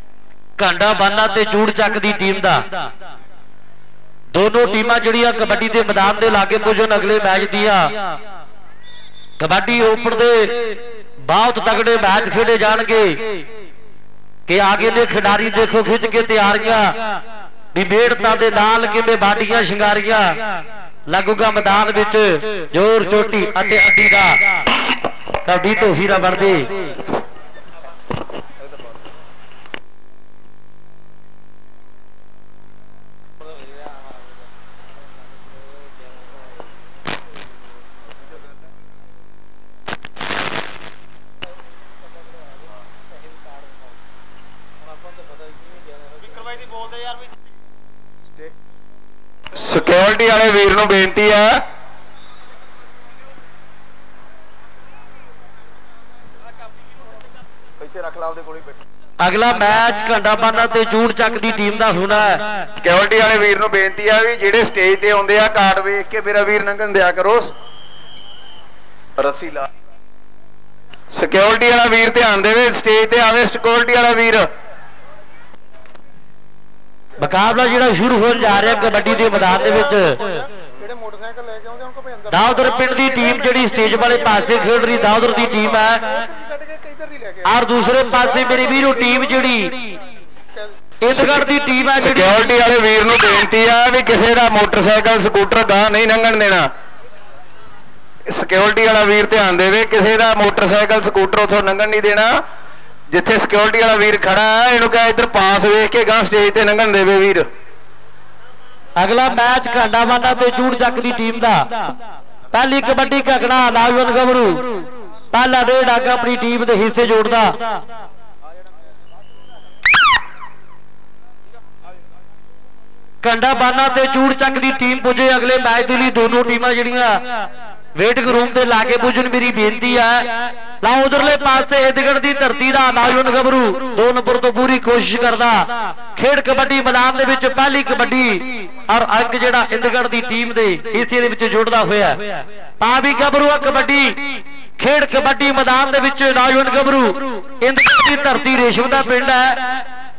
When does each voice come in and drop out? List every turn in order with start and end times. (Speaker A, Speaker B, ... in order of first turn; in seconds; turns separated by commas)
Speaker A: 0.6-2.6, Speaker A: 4.3-7.9, Speaker A: 9.4-13.4, Speaker A: 14.5-17.0, Speaker A: 17.7-20.4, Speaker A: 21.1-24.5, Speaker A: 25.4-26.9, Speaker B: 49.6-51.6, Speaker B: 57.8-58.7, Speaker A: 59.2-62.5, Speaker B: 62.8-67.5, Speaker B: 69.2-69.7, Speaker B: 71.1-74.5, Speaker A: 77.2-80.4, Speaker A: 82.3-86.3, Speaker A: 87.4-90.0, Speaker A: 91.0-92.3, Speaker B: 91.1-91.4, Speaker B: 92.0-96.7, Speaker B: 98.3-102.4, Speaker B: 103.1-107.5, Speaker A: 109.0-111.8, Speaker A: 112.5-117.6, Speaker A: 123.2-142.2, Speaker A: 142.8-149.8